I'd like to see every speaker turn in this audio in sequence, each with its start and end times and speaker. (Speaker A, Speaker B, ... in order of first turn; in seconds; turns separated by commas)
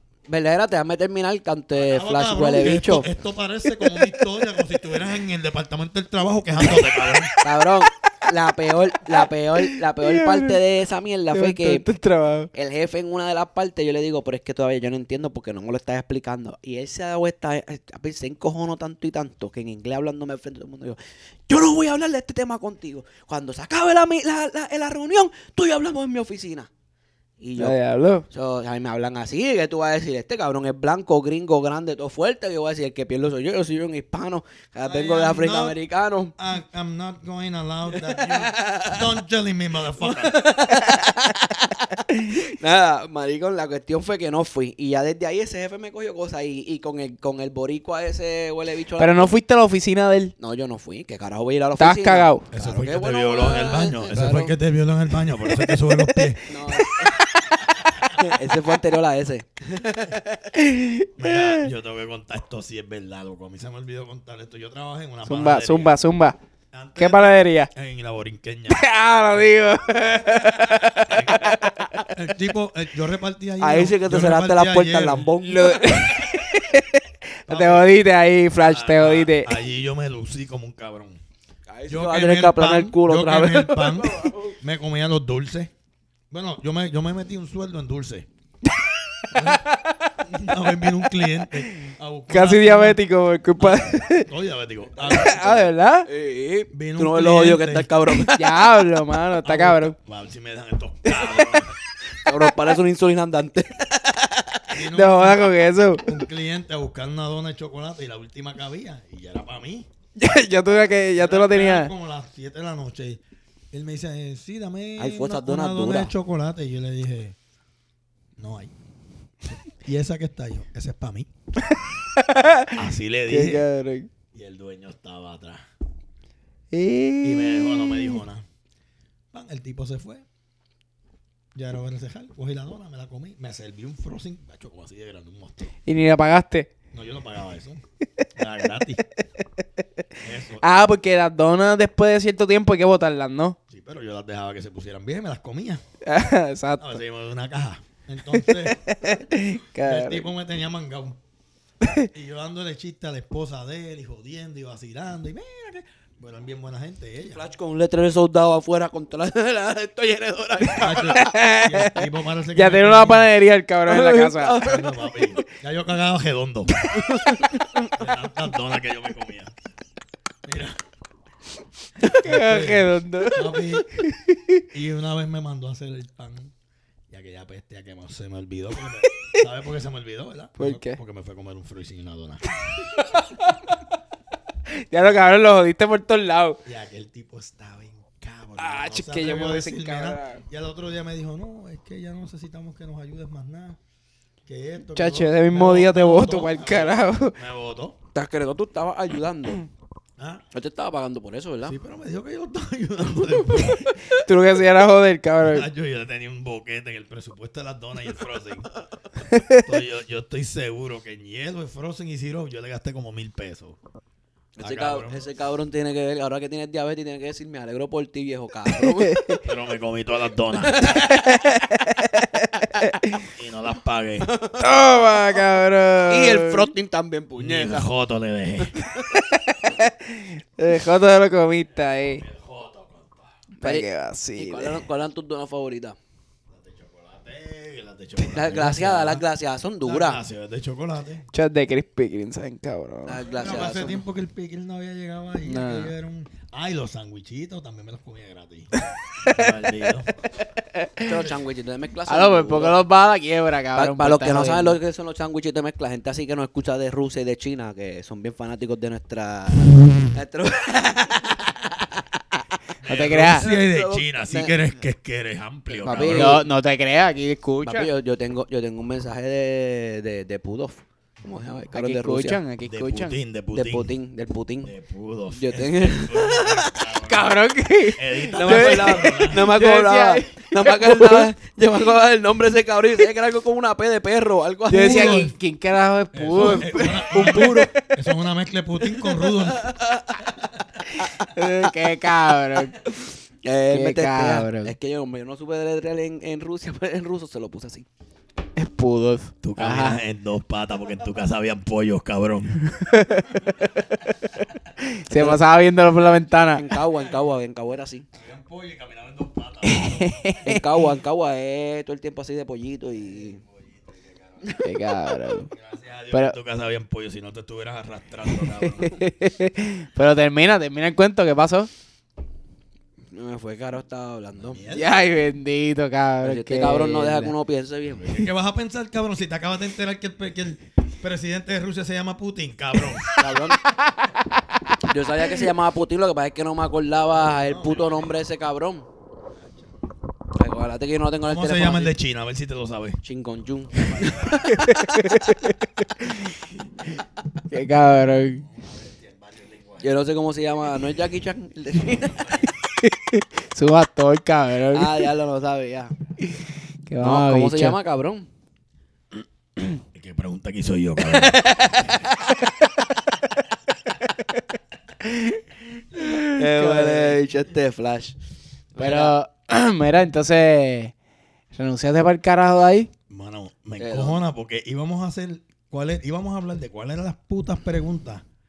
Speaker A: 0.3-3.1, Speaker B: 1.7-7.3, Speaker A: 7.4-11.8, Speaker C: 9.1-10.6, Speaker C: 11.3-12.5, Speaker A: 12.5-21.0, Speaker A: 21.5-26.7, Speaker A: 27.4-27.8, Speaker C: 27.6-28.2, Speaker A: 28.3-36.3, Speaker B: 34.8-35.8, Speaker B: 36.4-40.4, Speaker A: 37.9-39.1, Speaker A: 40.0-49.3, Speaker C: 49.0-50.3, Speaker A: 50.4-54.5, Speaker C: 51.8-52.4, Speaker B: 52.5-56.6, Speaker C: 55.6-56.3, Speaker A: 56.5-57.3, Speaker B: 57.8-58.2, Speaker A: 58.1-60.5, Speaker C: 60.5-61.7, Speaker B: 61.2-66.0, Speaker C: 65.2-66.4, Speaker B: 66.7-68.8, Speaker C: 67.0-67.7, Speaker C: 68.7-72.1, Speaker B: 71.0-75.3, Speaker A: 73.6-76.2, Speaker C: 75.4-79.5, Speaker B: 77.5-77.9, Speaker B: 78.6-81.2, Speaker A: 81.7-84.5, Speaker B: 81.9-85.7, Speaker B: 86.3-88.3, Speaker B: 89.3-89.7, Speaker C: 89.4-90.2, Speaker B: 90.2-93.0, Speaker C: 91.7-94.3, Speaker B: 93.6-95.7, Speaker A: 95.0-95.5, Speaker C: 95.0-96.1, Speaker A: 96.0-98.6, Speaker B: 96.7-97.9, Speaker C: 98.3-99.9, Speaker B: 99.4-101.8, Speaker A: 102.1-104.7, Speaker B: 104.7-109.9, Speaker C: 104.9-106.1, Speaker C: 110.2-111.9, Speaker B: 111.2-117.4, Speaker A: 115.0-116.1, Speaker B: 118.4-118.7, Speaker B: 119.8-121.3, Speaker C: 121.7-124.1, Speaker B: 122.7-123.7, Speaker B: 124.3-125.7, Speaker C: 126.7-128.2, Speaker B: 127.2-128.4, Speaker B: 129.3-130.2, Speaker B: 131.5-135.7, Speaker C: 135.8-136.7, Speaker B: 136.9-137.8, Speaker B: 138.3-139.0, Speaker B: 140.2-140.6, Speaker C: 140.6-143.6, Speaker B: 143.7-145.8, Speaker C: 146.0-147.0, Speaker B: 146.8-149.2, Speaker C: 148.3-150.3, Speaker B: 149.8-151.2, Speaker B: 152.1-157.5, Speaker A: 157.3-161.2, Speaker B: 160.8-163.3, Speaker C: 161.1-164.6, Speaker A: 163.9-165.4, Speaker B: 164.6-166.8, Speaker A: 166.9-167.5, Speaker B: 167.9-169.5, Speaker B: 170.4-170.8, Speaker C: 172.0-174.6, Speaker B: 172.1-173.8, Speaker B: 174.7-176.5, Speaker B: 177.1-182.6, Speaker C: 180.6-181.0, Speaker C: 183.0-183.6, Speaker C: 184.7-186.6, Speaker B: 184.9-185.4, Speaker B: 186.6-193.8, Speaker C: 188.6-190.4, Speaker B: 194.4-198.0, Speaker C: 194.9-197.3, Speaker A: 198.1-199.6, Speaker B: 200.2-200.4, Speaker A: 200.5-201.8, Speaker B: 201.6-203.9, Speaker C: 204.1-205.7, Speaker B: 205.4-208.7, Speaker C: 209.3-209.6, Speaker B: 209.5-213.8, Speaker A: 214.6-219.4, Speaker B: 214.6-215.2, Speaker C: 219.0-219.4, Speaker B: 219.4-221.0, Speaker A: 220.6-221.4, Speaker C: 221.1-223.2, Speaker B: 223.2-224.3, Speaker A: 224.2-224.6, Speaker C: 224.6-226.7, Speaker A: 226.1-227.9, Speaker B: 227.4-228.8, Speaker A: 228.7-229.1, Speaker C: 229.1-232.2, Speaker B: 232.2-233.3, Speaker C: 233.6-234.8, Speaker A: 233.6-235.9, Speaker B: 236.5-239.2, Speaker A: 238.2-240.2, Speaker B: 239.8-241.2, Speaker C: 241.3-243.2, Speaker A: 243.1-244.0, Speaker B: 243.2-248.7, Speaker C: 245.4-245.9, Speaker B: 249.2-250.1, Speaker C: 249.2-249.5, Speaker C: 250.6-251.2, Speaker A: 251.0-252.8, Speaker C: 252.1-254.8, Speaker A: 253.7-262.2, Speaker C: 262.8-263.4, Speaker B: 262.8-266.4, Speaker A: 263.2-264.6, Speaker A: 265.8-266.4, Speaker C: 266.0-267.9, Speaker A: 267.6-272.4, Speaker C: 271.7-273.1, Speaker B: 272.6-273.9, Speaker A: 273.5-274.7, Speaker B: 274.6-277.4, Speaker A: 275.3-276.8, Speaker C: 277.0-281.3, Speaker B: 277.9-279.5, Speaker A: 278.3-285.3, Speaker C: 284.7-288.0, Speaker B: 284.7-285.3, Speaker B: 286.1-289.7, Speaker A: 287.2-287.6, Speaker A: 289.5-290.2, Speaker C: 290.9-292.8, Speaker A: 292.9-297.8, Speaker C: 293.7-294.7, Speaker C: 298.6-300.0, Speaker B: 299.4-302.6, Speaker C: 302.7-304.1, Speaker C: 304.8-306.7, Speaker A: 305.1-305.4, Speaker A: 306.6-308.1, Speaker B: 308.1-310.2, Speaker C: 309.6-310.6, Speaker A: 310.4-313.4, Speaker B: 313.0-314.6, Speaker C: 314.6-315.5, Speaker B: 315.4-319.0, Speaker C: 318.6-321.7, Speaker A: 323.1-324.6, Speaker B: 324.4-324.9, Speaker C: 324.7-327.3, Speaker A: 326.2-328.2, Speaker B: 327.9-333.2, Speaker A: 333.1-333.6, Speaker C: 333.8-334.7, Speaker A: 334.8-338.9, Speaker B: 337.4-338.2, Speaker B: 339.4-339.7, Speaker A: 340.3-341.9, Speaker B: 341.2-343.0, Speaker A: 343.0-345.3, Speaker B: 343.9-344.2, Speaker C: 344.3-346.3, Speaker C: 347.5-348.4, Speaker B: 348.3-349.9, Speaker A: 349.8-352.4, Speaker C: 352.8-355.0, Speaker A: 354.7-355.9, Speaker C: 356.9-357.8, Speaker A: 357.0-358.3, Speaker B: 359.9-362.0, Speaker A: 361.1-362.4, Speaker C: 365.0-365.4, Speaker C: 365.9-367.2, Speaker A: 366.2-368.1, Speaker A: 368.7-369.1, Speaker C: 368.8-370.9, Speaker C: 371.5-372.9, Speaker B: 373.1-378.2, Speaker A: 373.8-374.2